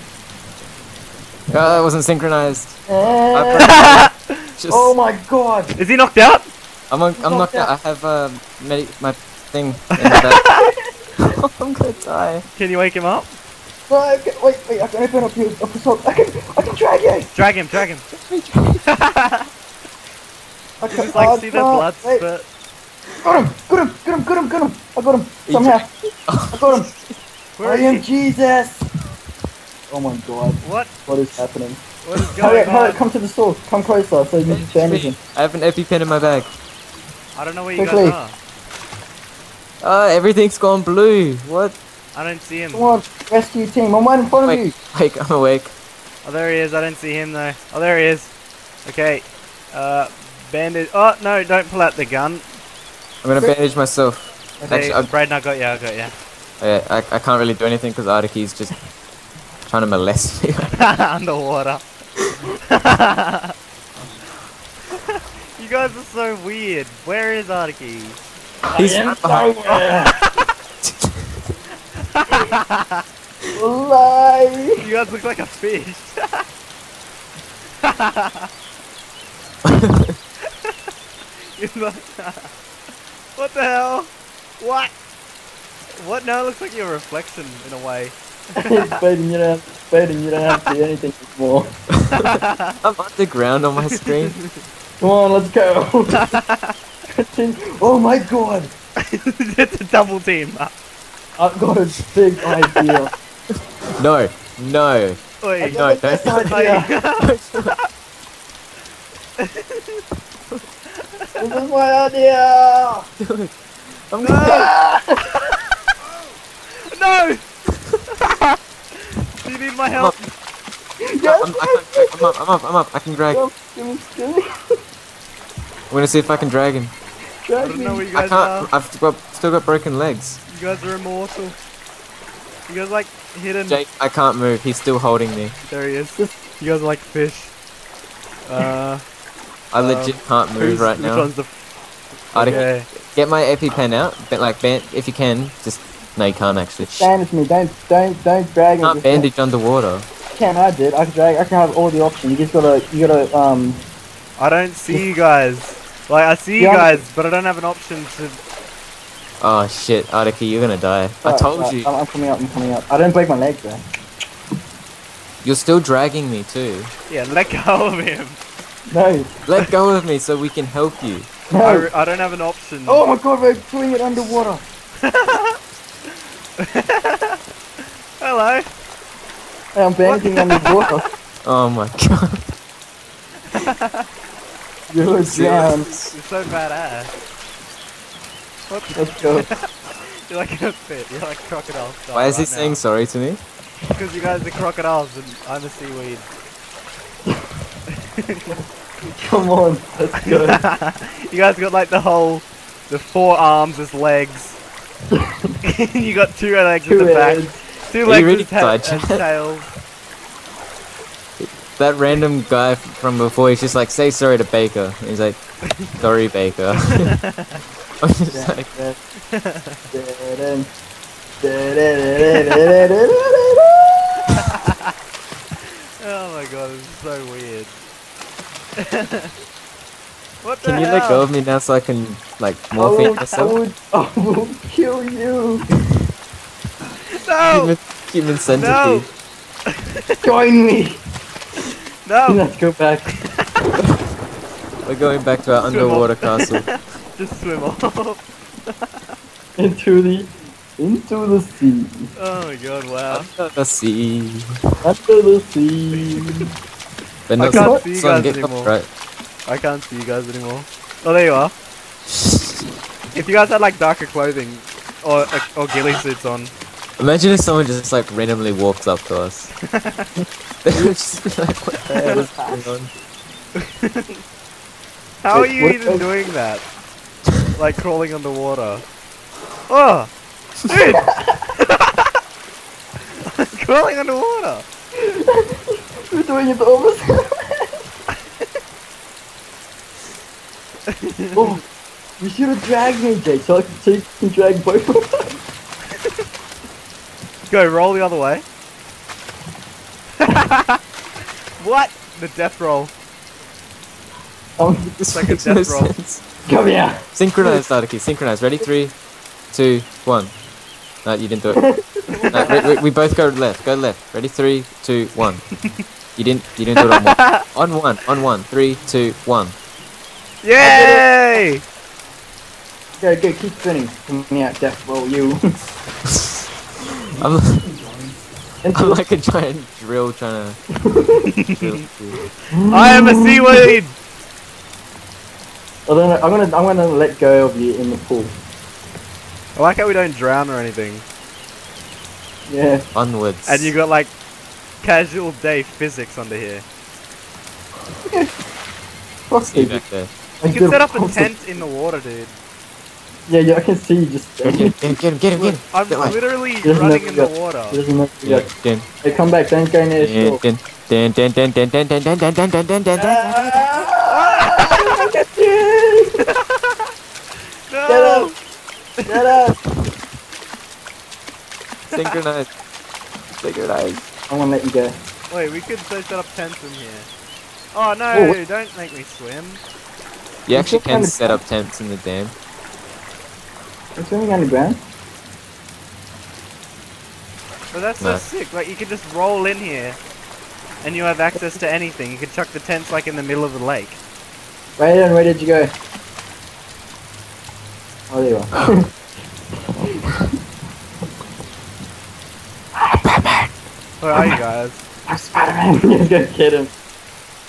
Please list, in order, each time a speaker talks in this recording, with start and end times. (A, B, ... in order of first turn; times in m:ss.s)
0:01.5-0:05.0 A
0:02.9-0:03.8 B
0:03.6-0:04.1 C
0:04.7-0:05.7 B
0:05.8-0:06.5 C
0:06.9-0:10.4 A
0:07.2-0:07.7 B
0:10.0-0:10.7 C
0:11.3-0:12.4 A
0:12.5-0:13.3 C
0:13.9-0:17.3 B
0:17.3-0:18.1 C
0:18.1-0:18.8 A
0:18.9-0:19.4 C
0:20.8-0:22.2 B
0:20.9-0:22.4 C
0:23.2-0:25.9 B
0:25.5-0:27.2 A
0:26.5-0:26.9 B
0:27.6-0:28.0 C
0:27.6-0:28.8 B
0:29.9-0:31.8 B
0:30.6-0:30.9 C
0:32.0-0:33.0 C
0:32.4-0:35.2 B
0:34.5-0:36.5 A
0:37.3-0:38.4 C
0:37.8-0:38.2 B
0:39.8-0:41.8 A
0:42.1-0:42.9 C
0:42.7-0:44.7 B
0:44.4-0:45.7 A
0:46.2-0:48.3 C
0:48.8-0:52.5 C
0:53.2-0:55.1 A
0:54.7-0:56.1 C
0:56.6-0:58.8 A
0:59.6-1:00.8 A
1:00.8-1:01.8 C
1:02.5-1:03.5 C
1:05.6-1:08.2 C
1:08.7-1:10.1 B
1:08.8-1:09.5 A
1:10.0-1:10.4 C
1:10.8-1:11.5 A
1:12.1-1:13.0 C
1:13.6-1:14.8 B
1:14.8-1:16.4 C
1:17.8-1:18.5 C
1:19.6-1:20.2 A
1:21.6-1:22.5 C
1:23.4-1:24.9 C
1:26.0-1:28.9 C
1:28.6-1:31.7 B
1:32.0-1:34.4 A
1:32.2-1:32.5 C
1:34.1-1:34.4 C
1:35.0-1:36.3 B
1:36.2-1:36.7 C
1:37.2-1:38.7 B
1:39.1-1:40.7 C
1:41.4-1:43.1 B
1:44.0-1:46.5 A
1:45.4-1:45.8 C
1:45.6-1:46.9 B
1:46.4-1:47.8 C
1:47.2-1:47.8 A
1:49.4-1:50.0 C
1:51.4-1:53.1 B
1:53.2-1:53.5 A
1:54.1-1:54.7 A
1:54.2-1:54.7 C
1:54.4-1:55.2 B
1:56.9-1:57.4 C
1:58.2-1:58.4 C
1:59.4-2:00.2 C
2:01.1-2:02.3 B
2:01.4-2:03.4 A
2:03.3-2:04.4 B
2:05.9-2:06.9 A
2:07.4-2:08.1 B
2:07.6-2:08.7 C
2:08.1-2:10.4 A
2:10.5-2:11.6 C
2:12.7-2:13.8 C
2:13.7-2:15.6 A
2:15.6-2:17.5 C
2:18.5-2:19.0 C
2:19.7-2:21.3 A
2:19.7-2:21.5 C
2:22.3-2:22.9 C
2:22.3-2:27.1 A
2:26.8-2:29.3 B
2:28.8-2:30.1 A
2:30.3-2:33.8 B
2:34.4-2:38.4 C
2:36.6-2:37.0 B
2:39.4-2:41.9 A
2:41.2-2:43.8 B
2:45.4-2:46.9 A
2:47.1-2:48.4 C
2:48.9-2:49.4 B
2:49.4-2:51.3 A
2:51.5-2:51.9 B
2:51.6-2:53.0 C
2:52.9-2:54.6 B
2:55.0-2:55.6 C
2:56.6-2:57.4 C
2:58.2-2:58.7 C
2:59.7-3:01.0 B
3:00.0-3:01.1 C
3:01.4-3:02.4 A
3:03.5-3:04.0 C
3:04.9-3:05.9 B
3:05.2-3:06.2 A
3:05.6-3:07.1 C
3:08.7-3:09.6 C
3:08.9-3:09.5 B
3:10.3-3:12.8 C
3:12.1-3:13.4 A
3:13.9-3:16.3 C
3:18.2-3:18.5 C
3:19.2-3:20.6 B
3:20.3-3:24.6 C
3:25.6-3:29.7 C
3:26.9-3:27.6 B
3:28.0-3:29.2 A
3:31.4-3:37.1 A
3:36.9-3:37.6 C
3:38.0-3:38.7 A
3:38.3-3:39.0 B
3:39.3-3:39.8 C
3:39.9-3:40.7 B
3:41.4-3:44.5 B
3:44.4-3:44.8 C
3:46.0-3:47.8 C
3:48.8-3:49.3 C
3:50.4-3:51.3 C
3:50.6-3:53.6 A
3:52.8-3:55.7 B
3:53.0-3:53.4 C
3:57.1-3:57.7 C
3:57.5-3:59.1 A
3:58.5-3:59.1 C
4:00.2-4:01.0 B
4:02.0-4:02.4 C
4:02.3-4:03.1 B
4:04.8-4:06.7 A
4:05.6-4:08.2 C
4:09.6-4:11.9 B
4:12.2-4:13.3 C
4:13.1-4:14.5 A
4:14.8-4:16.4 B
4:15.9-4:16.4 C
4:17.3-4:18.9 A
4:17.4-4:18.7 C
4:17.5-4:17.9 B
4:19.5-4:21.5 C
4:22.1-4:22.6 A
4:23.1-4:26.5 C
4:27.0-4:29.5 A
4:29.8-4:30.0 C
4:30.6-4:32.9 A
4:31.9-4:32.2 C
4:32.0-4:32.5 B
4:33.6-4:34.2 C
4:35.2-4:36.6 C
4:35.3-4:36.1 B
4:37.5-4:38.8 C
4:39.7-4:40.1 C
4:40.7-4:42.0 C
4:43.4-4:44.6 C
4:45.0-4:45.6 B
4:46.1-4:47.7 B
4:51.0-4:51.6 C
4:51.3-4:51.6 B
4:52.2-4:55.3 B
4:57.5-4:58.4 C
5:00.2-5:00.8 C
5:01.6-5:02.9 C
5:04.6-5:05.0 B
5:05.0-5:06.2 A
5:05.1-5:05.9 C
5:06.4-5:07.0 B
5:07.1-5:09.0 A
5:09.5-5:10.3 A
5:11.0-5:11.6 A
5:11.5-5:12.6 B
5:12.1-5:12.7 C
5:12.3-5:15.4 A
5:16.2-5:19.6 A
5:16.8-5:17.4 C
5:20.4-5:21.6 C
5:20.6-5:21.4 B
5:23.0-5:25.4 B
5:27.2-5:27.6 A
5:28.6-5:29.0 B
5:28.7-5:30.6 A
5:30.8-5:31.2 B
5:31.6-5:32.2 A
5:32.5-5:33.6 B
5:32.7-5:34.0 C
5:35.9-5:38.3 B
5:39.6-5:41.0 C
5:42.5-5:42.8 B
5:42.9-5:43.7 A
5:43.4-5:44.1 C
5:44.8-5:46.6 C
5:49.3-5:49.8 B
5:49.4-5:50.1 A
5:50.4-5:51.4 B
5:50.5-5:52.3 C
5:53.3-5:55.0 B
5:54.4-5:56.2 A
5:55.4-5:57.8 C
5:56.6-5:58.5 B
5:58.2-5:58.9 A
5:59.0-6:00.4 B
6:00.0-6:03.4 A
6:03.0-6:06.0 B
6:04.1-6:05.1 C
6:07.7-6:08.4 C
6:07.9-6:08.3 B
6:09.0-6:09.6 B
6:11.9-6:12.5 A
6:13.4-6:14.1 A
6:14.3-6:15.0 B
6:15.3-6:17.1 C
6:17.7-6:19.6 C
6:18.1-6:18.4 B
6:20.4-6:22.3 A
6:20.5-6:21.4 B
6:24.0-6:24.8 B
6:27.7-6:30.0 C
6:30.8-6:34.0 C
6:34.8-6:35.7 B
6:38.1-6:38.9 B
6:43.0-6:43.5 A
6:44.0-6:44.8 C
6:45.1-6:46.7 B